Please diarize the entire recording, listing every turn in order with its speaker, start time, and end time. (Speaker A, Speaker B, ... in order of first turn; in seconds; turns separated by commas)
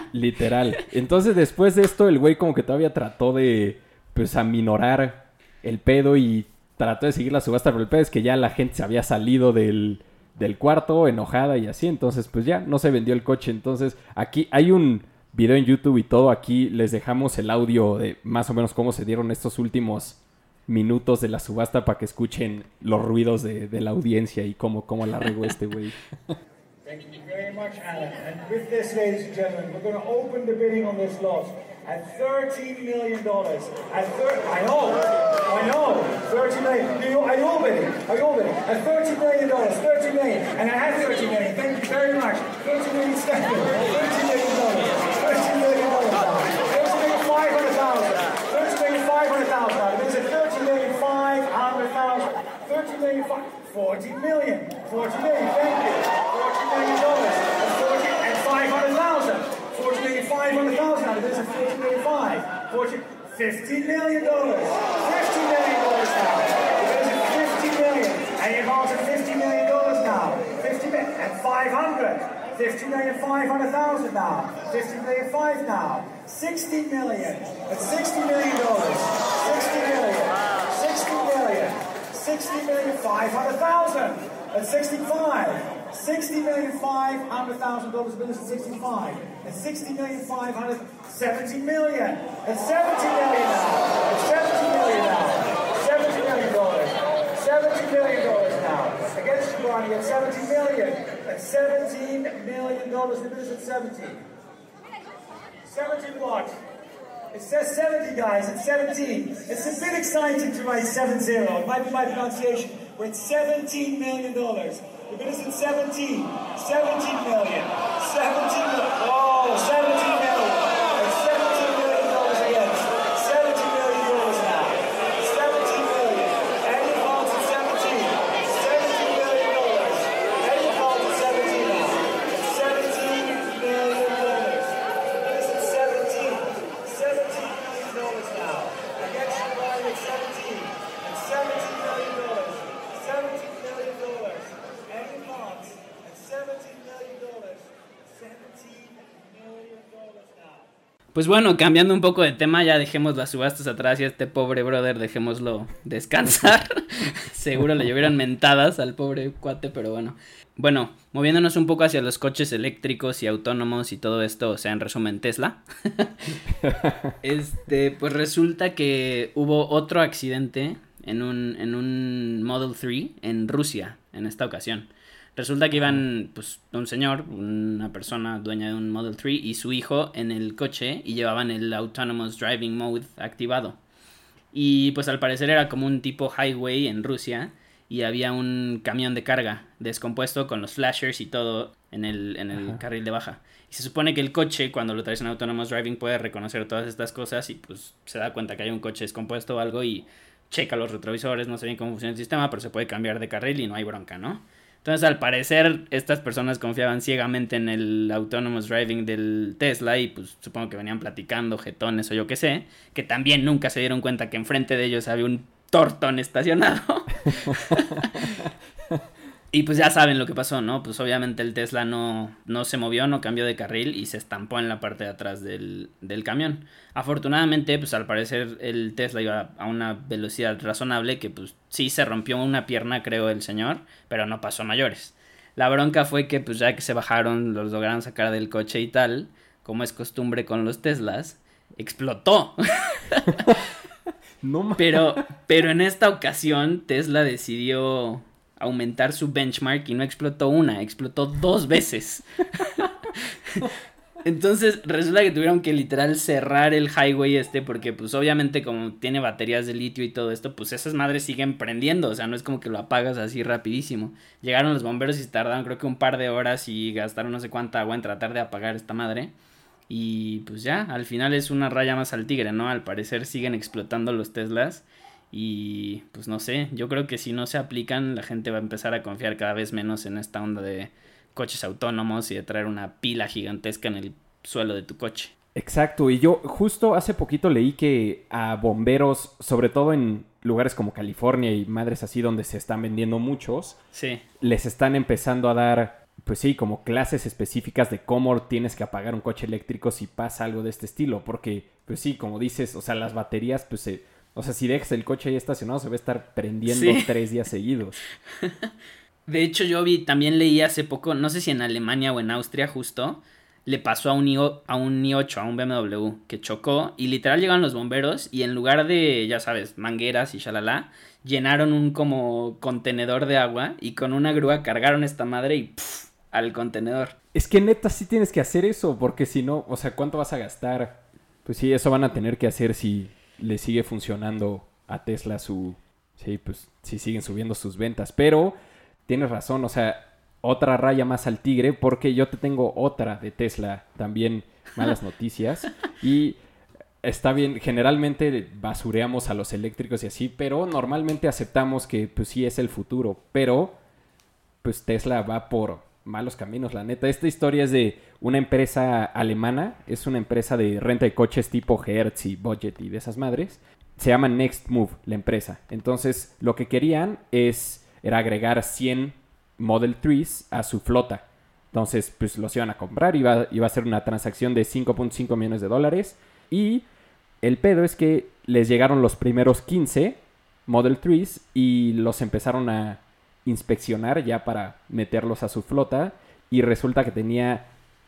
Speaker A: 0.1-26.3, Speaker B: 26.9-104.2, Speaker B: 105.6-106.6, Speaker B: 107.3-150.7, Speaker C: 151.1-166.4, Speaker A: 166.6-167.2, Speaker C: 167.2-183.8, Speaker A: 175.7-176.0, Speaker C: 184.5-218.4, Speaker A: 192.5-192.8, Speaker C: 219.5-243.5, Speaker A: 243.3-243.6, Speaker A: 244.4-245.2, Speaker C: 244.8-253.7, Speaker C: 254.2-269.3, Speaker C: 269.9-285.3, Speaker A: 285.5-293.8, Speaker C: 293.9-294.2, Speaker A: 294.4-308.0, Speaker C: 306.6-307.1, Speaker C: 308.4-308.7, Speaker C: 309.3-327.1, Speaker A: 327.3-338.5, Speaker A: 339.1-346.4, Speaker A: 347.0-353.8, Speaker A: 354.6-376.9, Speaker A: 377.4-387.7